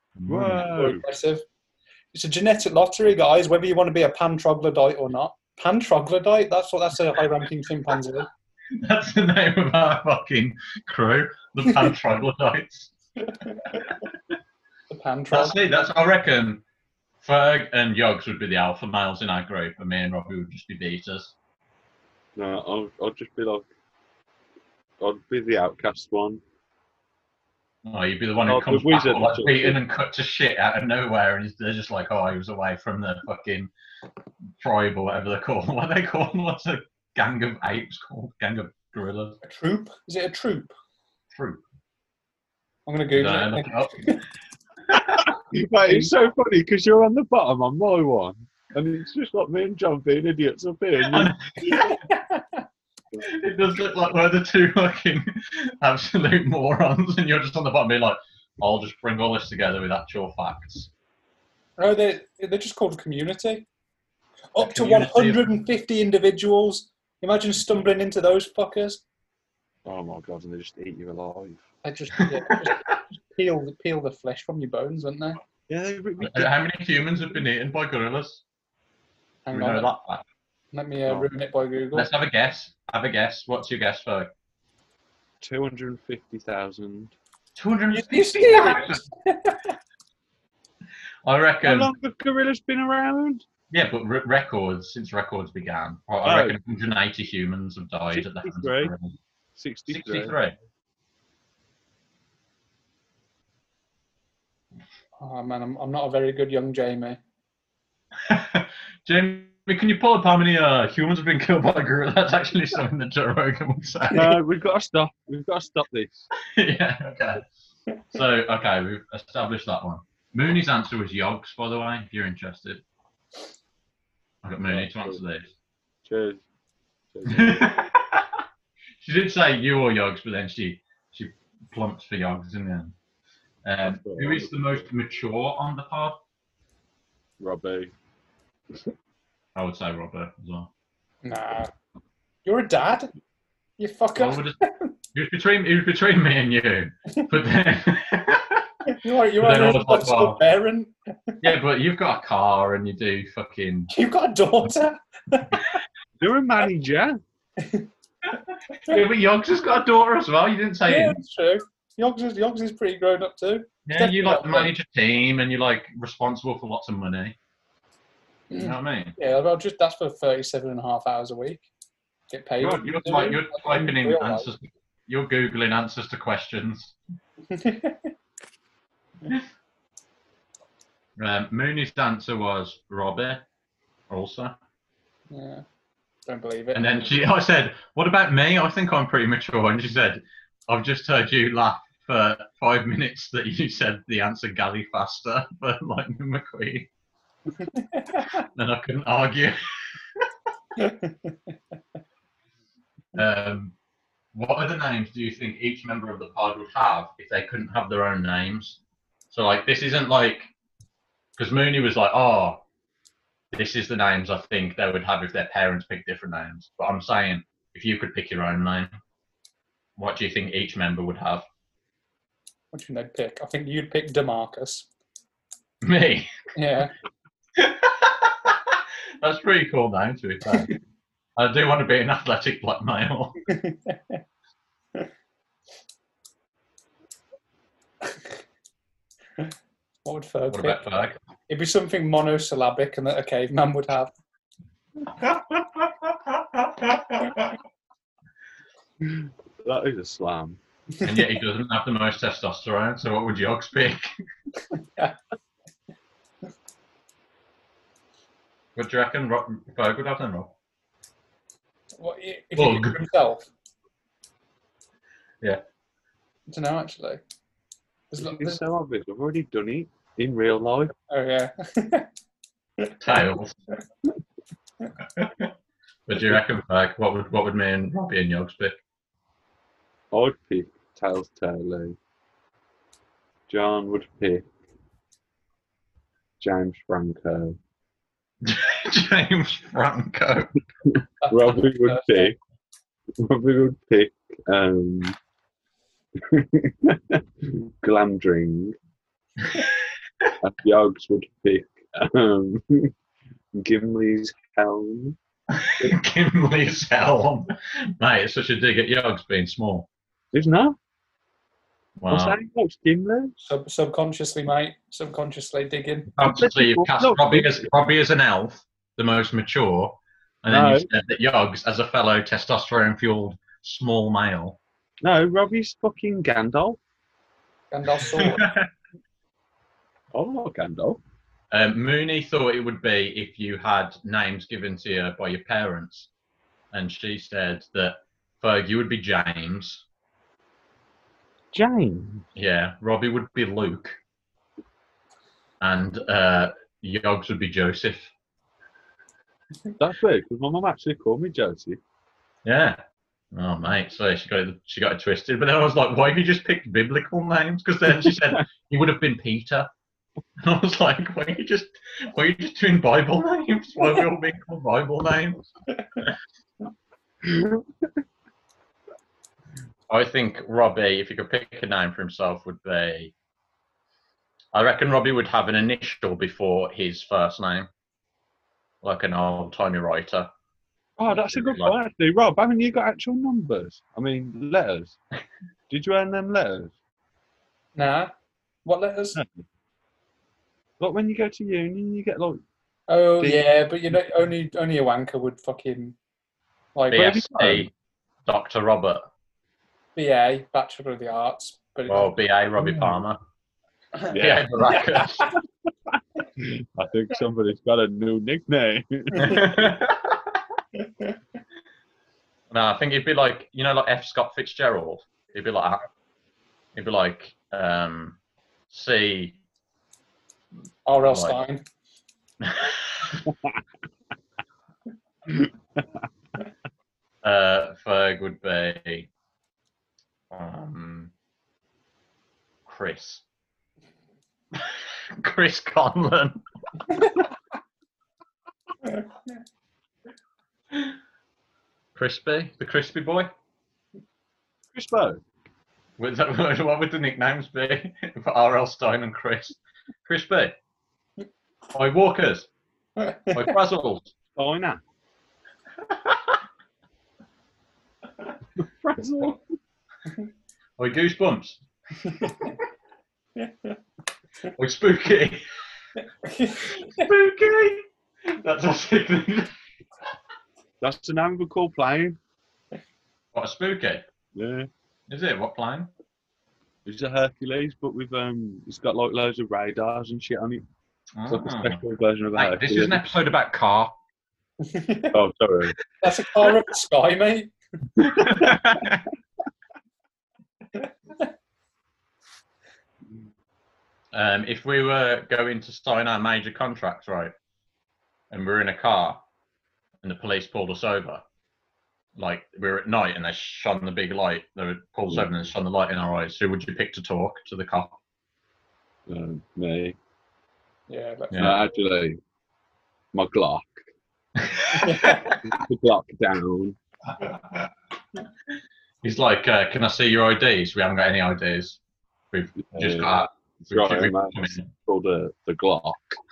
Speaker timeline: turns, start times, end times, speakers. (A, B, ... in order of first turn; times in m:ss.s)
0:00.2-0:00.6 A
0:00.3-0:01.0 B
0:00.5-0:01.4 C
0:02.1-0:08.3 C
0:08.8-0:12.9 A
0:14.9-0:15.6 C
0:15.3-0:16.6 A
0:17.2-0:21.3 A
0:22.4-0:23.7 B
0:25.0-0:26.4 B
0:27.8-0:33.7 A
0:28.4-0:29.8 B
0:34.6-0:39.4 A
0:39.4-0:40.7 C
0:41.3-0:41.6 A
0:42.9-0:44.2 C
0:43.1-0:44.2 A
0:44.9-0:45.3 A
0:45.2-0:51.3 B
0:45.9-0:46.1 C
0:51.0-0:52.0 A
0:51.7-0:52.6 C
0:53.2-1:00.9 A
1:01.8-1:03.6 C
1:04.5-1:09.0 C
1:04.6-1:05.5 A
1:09.9-1:11.7 B
1:11.8-1:15.4 C
1:12.2-1:12.7 A
1:15.7-1:16.5 B
1:16.2-1:18.4 A
1:19.4-1:19.9 C
1:19.5-1:20.2 A
1:20.7-1:22.1 C
1:21.9-1:24.3 A
1:25.4-1:27.1 B
1:27.6-1:29.0 A
1:27.9-1:29.7 C
1:31.2-1:31.9 A
1:31.6-1:33.4 B
1:33.7-1:39.1 A
1:36.2-1:36.6 B
1:38.1-1:38.9 B
1:39.6-1:40.4 B
1:39.9-1:40.6 A
1:45.2-1:47.2 C
1:48.2-1:54.4 A
1:54.1-1:56.3 B
1:56.4-1:57.5 A
1:58.1-2:02.8 A
2:04.4-2:05.5 A
2:04.6-2:05.2 B
2:06.0-2:06.4 B
2:07.1-2:07.7 B
2:07.3-2:08.3 A
2:09.0-2:12.9 A
2:13.6-2:16.2 A
2:13.8-2:14.9 B
2:17.4-2:17.9 B
2:19.6-2:20.7 A
2:21.2-2:21.7 C
2:22.4-2:23.1 C
2:23.8-2:24.9 C
2:24.2-2:24.6 A
2:25.1-2:28.7 A
2:28.9-2:31.4 C
2:29.4-2:30.4 A
2:31.4-2:33.9 A
2:33.9-2:35.7 C
2:36.2-2:37.2 B
2:37.6-2:37.9 C
2:38.7-2:41.2 A
2:40.9-2:44.7 C
2:43.9-2:47.4 A
2:48.5-2:51.7 C
2:48.5-2:49.2 A
2:52.3-2:54.5 C
2:52.6-2:57.0 A
2:57.5-2:58.1 C
3:01.2-3:03.4 A
3:04.1-3:04.6 A
3:05.3-3:05.6 C
3:06.3-3:06.9 C
3:06.7-3:16.9 A
3:17.6-3:18.4 C
3:18.3-3:19.6 A
3:20.8-3:21.3 C
3:23.1-3:23.7 A
3:24.3-3:28.8 A
3:29.3-3:30.5 A
3:31.4-3:32.6 A
3:33.5-3:38.9 A
3:40.0-3:41.4 A
3:42.7-3:44.9 C
3:45.8-3:46.3 A
3:46.6-3:46.9 C
3:47.6-3:50.7 A
3:51.4-3:53.4 A
3:53.5-3:54.2 C
4:00.0-4:00.8 C
4:00.5-4:01.2 A
4:01.5-4:04.1 C
4:05.2-4:07.6 A
4:09.0-4:10.6 B
4:11.0-4:14.1 A
4:18.8-4:20.5 A
4:22.0-4:23.5 C
4:22.6-4:23.0 A
4:26.5-4:27.2 C
4:28.1-4:28.6 C
4:28.2-4:30.9 B
4:31.1-4:32.1 C
4:33.0-4:33.6 A
4:35.2-4:35.5 A
4:36.1-4:38.8 A
4:40.1-4:42.0 B
4:43.5-4:44.5 B
4:46.4-4:47.6 B
4:48.4-4:50.6 A
4:50.9-4:52.4 B
4:51.2-4:52.3 C
4:53.2-4:55.2 B
4:56.2-4:58.8 B
5:00.4-5:02.9 B
5:03.5-5:05.2 B
5:05.5-5:09.9 A
5:10.3-5:10.8 B
5:12.0-5:12.4 A
5:12.1-5:13.4 B
5:13.4-5:16.1 C
5:16.1-5:24.6 A
5:16.2-5:17.7 B
5:20.5-5:20.9 B
5:25.0-5:26.8 B
5:27.7-5:28.5 C
5:28.0-5:28.6 A
5:30.1-5:31.0 B
5:31.5-5:36.1 A
5:36.7-5:39.8 A
5:41.5-5:42.2 B
5:42.3-5:44.0 A
5:45.6-5:48.1 A
5:49.8-5:51.8 B
5:52.4-5:52.8 A
5:53.3-5:59.7 A
5:58.0-5:58.4 B
6:00.4-6:06.2 A
6:07.2-6:08.0 B
6:09.9-6:13.1 A
6:14.5-6:17.7 A
6:18.8-6:20.3 A
6:21.0-6:25.0 B
6:21.1-6:21.8 A
6:25.7-6:26.7 B
6:27.8-6:28.1 C
6:28.6-6:29.2 C
6:29.1-6:29.4 B
6:30.8-6:32.4 B
6:32.9-6:36.0 C
6:33.2-6:33.4 B
6:36.7-6:37.3 C
6:36.9-6:37.7 A
6:37.0-6:37.7 B
6:38.3-6:39.1 A
6:40.0-6:42.1 C
6:41.9-6:43.2 A
6:44.1-6:45.2 B
6:44.1-6:45.3 A
6:45.9-6:49.7 B
6:49.2-6:50.2 A
6:52.5-6:55.9 A
6:56.7-6:58.2 A
6:58.7-6:59.4 A
7:00.9-7:01.6 C
7:01.0-7:01.4 A
7:02.4-7:03.3 A
7:03.3-7:03.6 B
7:05.3-7:06.0 B
7:07.2-7:09.1 A
7:10.3-7:11.1 A
7:12.7-7:13.2 A
7:14.6-7:16.4 A
7:21.9-7:23.3 A
7:24.7-7:25.2 B
7:26.0-7:30.6 A
7:31.7-7:32.5 A
7:33.0-7:33.5 C
7:33.3-7:34.1 A
7:34.3-7:34.8 B
7:38.6-7:39.4 B
7:40.8-7:42.6 A
7:43.4-7:43.7 C
7:44.5-7:45.4 A
7:46.2-7:47.1 C
7:46.6-7:49.5 A
7:50.8-7:52.2 B
7:53.3-7:54.0 A
7:54.3-7:54.7 B
7:55.1-7:55.9 A
7:56.8-8:00.6 B
8:01.2-8:01.8 A
8:01.3-8:03.0 B
8:02.3-8:04.0 A
8:04.6-8:05.1 C
8:05.1-8:05.8 B
8:06.0-8:07.5 C
8:08.0-8:09.0 A
8:10.8-8:11.2 C
8:14.1-8:17.3 A
8:18.3-8:19.2 A
8:20.0-8:21.2 A
8:22.2-8:28.0 A
8:29.1-8:30.0 B
8:30.9-8:31.5 C
8:31.3-8:31.6 A
8:31.4-8:32.2 B
8:33.1-8:33.9 B
8:34.4-8:35.4 A
8:34.7-8:35.3 C
8:35.3-8:36.8 B
8:37.1-8:37.7 A
8:39.0-8:41.8 A
8:42.3-8:44.7 A
8:42.6-8:46.2 B